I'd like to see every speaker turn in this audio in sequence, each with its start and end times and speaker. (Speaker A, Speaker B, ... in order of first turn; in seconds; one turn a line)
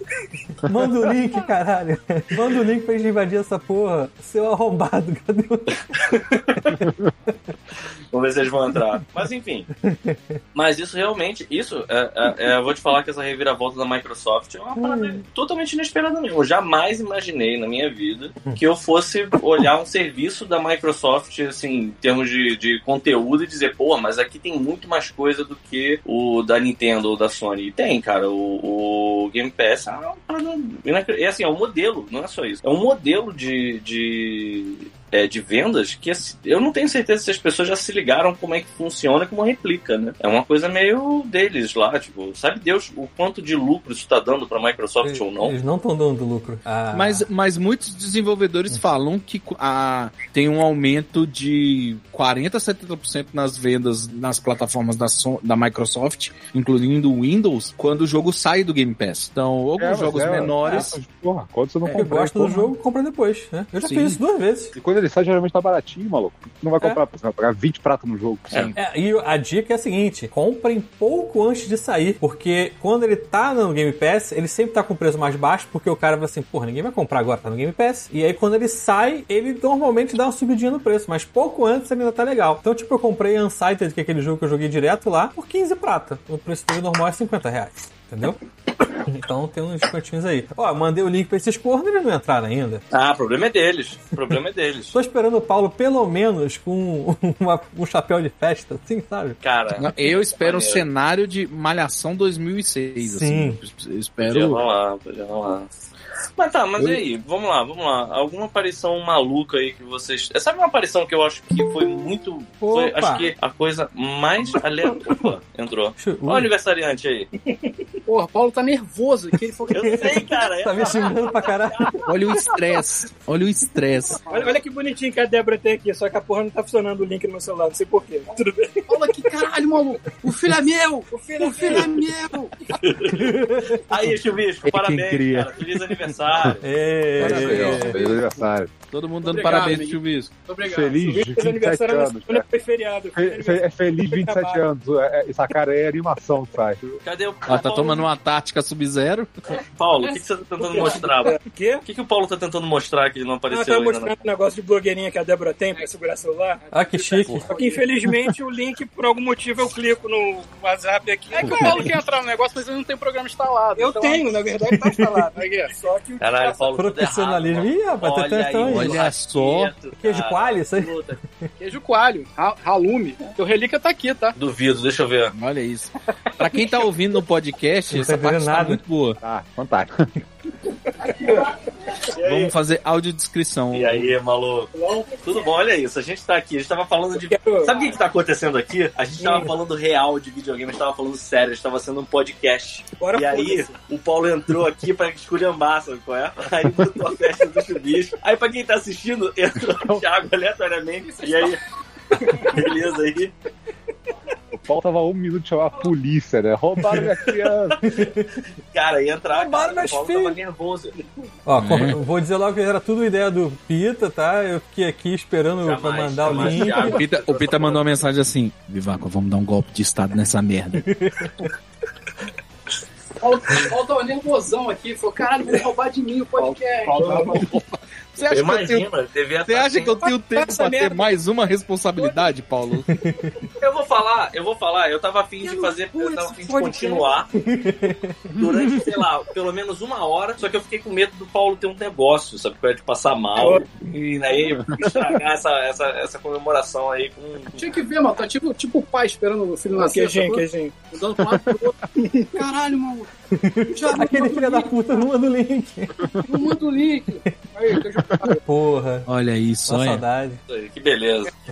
Speaker A: 0.6-5.8
Speaker B: 6.0-6.8
Speaker B: 8.1-9.7
Speaker A: 9.8-10.4
Speaker B: 10.5-45.5
Speaker A: 14.8-15.2
Speaker A: 45.0-47.2
Speaker C: 46.9-61.0
Speaker D: 59.8-62.7
Speaker A: 61.9-64.7
Speaker C: 63.8-64.2
Speaker D: 64.8-68.7
Speaker C: 68.5-68.8
Speaker A: 68.8-88.4
Speaker A: 89.0-92.8
Speaker B: 92.9-95.0
Speaker A: 94.9-99.4
Speaker B: 99.4-100.9
Speaker C: 99.8-104.6
Speaker A: 103.0-103.6
Speaker B: 104.3-105.7
Speaker B: 106.4-117.3
Speaker A: 112.6-113.3
Speaker A: 116.0-116.5
Speaker E: 118.1-120.4
Speaker B: 119.7-122.1
Speaker A: 119.8-121.9
Speaker C: 122.1-124.2
Speaker E: 124.2-124.6
Speaker F: 124.3-129.2
Speaker E: 128.9-132.5
Speaker F: 131.2-132.1
Speaker B: 132.7-136.7
Speaker A: 133.1-133.9
Speaker D: 134.7-135.7
Speaker D: 136.3-136.6
Speaker A: 136.6-138.0
Speaker D: 137.2-138.7
Speaker C: 137.2-138.2
Speaker C: 138.9-140.3
Speaker E: 139.2-141.3
Speaker D: 140.6-142.4
Speaker F: 141.1-144.6
Speaker D: 143.2-147.0
Speaker B: 147.0-148.1
Speaker C: 147.5-149.4
Speaker B: 149.6-154.1
Speaker F: 150.6-151.8
Speaker F: 153.5-156.6
Speaker E: 156.6-157.9
Speaker A: 156.7-157.5
Speaker F: 157.5-161.9
Speaker E: 161.3-165.8
Speaker F: 163.8-166.8
Speaker B: 166.2-171.2
Speaker A: 166.8-169.0
Speaker C: 168.6-169.7
Speaker A: 170.0-171.5
Speaker E: 171.6-174.4
Speaker B: 174.4-175.3
Speaker C: 175.3-179.2
Speaker A: 177.9-178.8
Speaker D: 179.2-180.1
Speaker F: 181.0-181.4
Speaker B: 182.2-182.5
Speaker C: 182.2-184.1
Speaker B: 183.7-201.6
Speaker F: 184.8-185.1
Speaker F: 187.1-187.8
Speaker F: 189.2-189.5
Speaker F: 193.0-193.8
Speaker E: 201.0-201.6
Speaker B: 202.1-203.3
Speaker F: 202.3-202.6
Speaker D: 204.6-207.8
Speaker B: 207.7-208.2
Speaker A: 207.8-208.3
Speaker B: 208.7-211.0
Speaker A: 209.3-210.4
Speaker A: 211.5-217.0
Speaker C: 211.6-212.0
Speaker B: 215.6-217.8
Speaker C: 216.3-220.9
Speaker A: 220.8-221.3
Speaker E: 223.2-227.5
Speaker C: 227.1-227.5
Speaker C: 228.2-228.9
Speaker B: 228.3-230.1
Speaker C: 229.5-232.9
Speaker F: 230.2-231.1
Speaker F: 232.0-232.2
Speaker A: 232.9-233.3
Speaker B: 233.6-237.3
Speaker F: 235.4-237.1
Speaker A: 237.3-238.4
Speaker B: 238.4-247.7
Speaker F: 243.4-243.6
Speaker E: 247.6-251.8
Speaker F: 249.8-250.9
Speaker F: 252.0-252.3
Speaker E: 252.3-253.1
Speaker A: 253.3-256.1
Speaker E: 253.7-255.1
Speaker E: 256.3-258.4
Speaker A: 258.4-259.1
Speaker C: 259.1-260.0
Speaker A: 259.7-260.4
Speaker B: 260.5-261.3